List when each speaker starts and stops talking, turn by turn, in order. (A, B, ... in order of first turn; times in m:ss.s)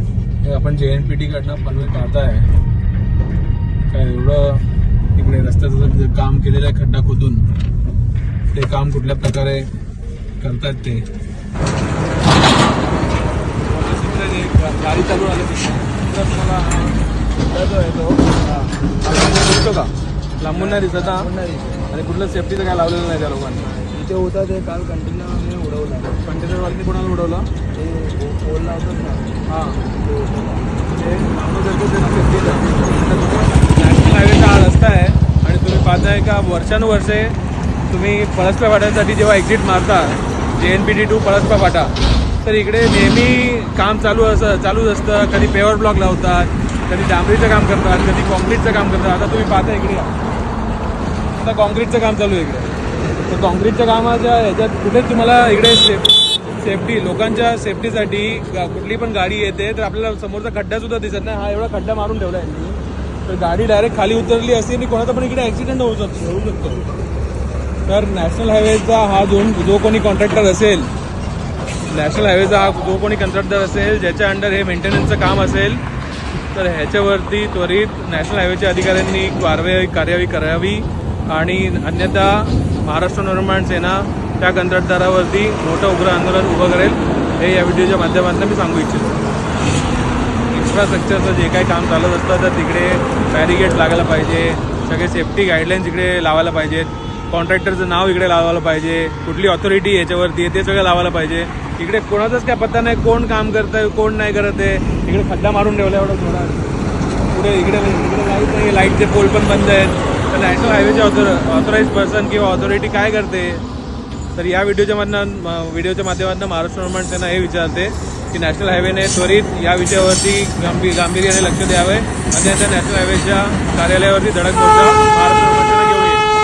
0:00.4-0:02.5 A
0:03.9-0:04.6 A
0:05.2-0:07.5 A
0:08.5-0:09.7 A
0:10.4-0:11.0 A
0:13.7-0:17.0 A
0:17.5-0:18.6 B
0:19.0-0:21.3 A
0:20.5-0:21.9 B
0:21.9-0:23.7 A
0:23.6-0:26.2 B
0:26.2-0:27.5 A
0:27.8-0:30.7 B
0:29.5-0:29.8 A
0:30.9-0:37.4 A
0:37.9-0:50.2 A
0:51.4-0:52.7 A
0:53.3-1:06.9 A
1:07.9-1:10.9 A
1:11.9-1:15.8 A
1:16.5-1:29.3 A
1:30.5-1:46.7 A
1:47.3-1:53.6 A
1:54.3-2:06.3 A